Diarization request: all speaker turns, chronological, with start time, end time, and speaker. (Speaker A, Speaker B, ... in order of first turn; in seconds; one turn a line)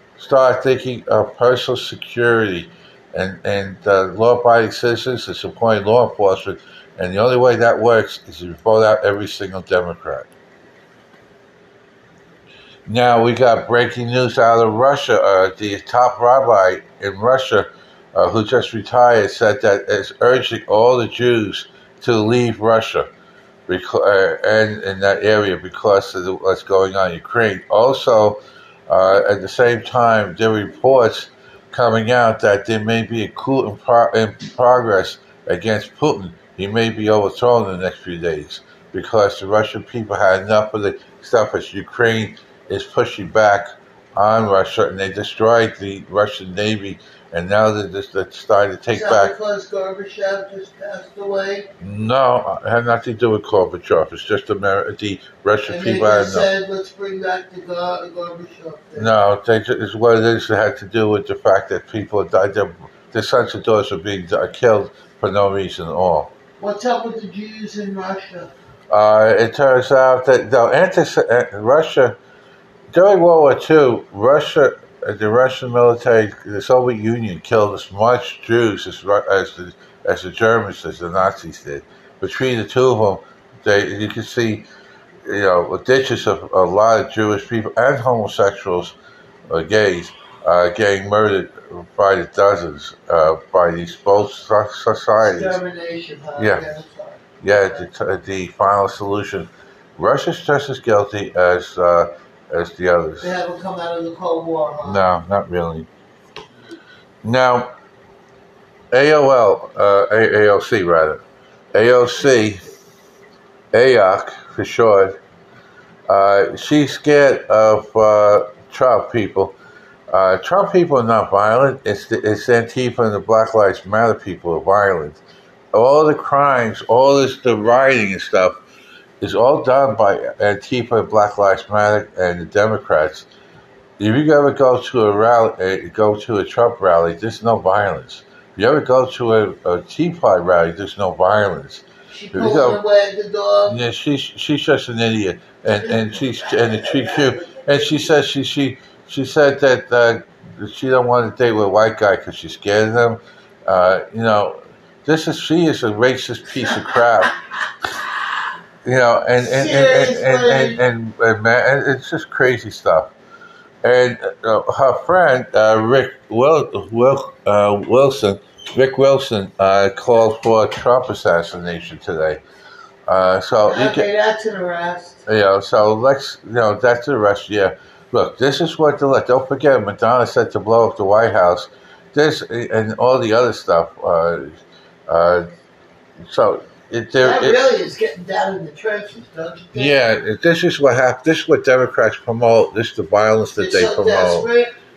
Speaker A: 0.2-10.3
Speaker A: 12.9-23.1
Speaker A: 23.7-49.3
Speaker B: 48.9-51.7
Speaker A: 51.8-56.5
Speaker B: 55.7-59.1
Speaker A: 59.0-66.3
Speaker B: 66.6-68.5
Speaker A: 68.9-72.2
Speaker A: 72.9-84.7
Speaker A: 85.3-89.0
Speaker A: 89.5-95.6
Speaker B: 95.2-97.9
Speaker A: 96.4-96.6
Speaker A: 97.4-103.3
Speaker B: 103.2-105.0
Speaker A: 104.8-105.9
Speaker A: 107.2-107.7
Speaker A: 108.9-111.2
Speaker A: 111.7-112.7
Speaker A: 113.7-115.2
Speaker A: 116.1-119.6
Speaker A: 120.1-125.2
Speaker A: 125.7-128.6
Speaker A: 129.2-133.3
Speaker A: 134.0-142.8
Speaker B: 142.1-143.8
Speaker A: 143.7-157.4
Speaker B: 145.8-147.8
Speaker A: 158.8-163.1
Speaker B: 159.4-160.8
Speaker A: 163.8-172.4
Speaker A: 173.1-174.1
Speaker B: 173.7-175.2
Speaker A: 175.3-185.5
Speaker A: 186.3-187.6
Speaker B: 187.2-190.0
Speaker A: 189.8-194.5
Speaker B: 193.5-194.7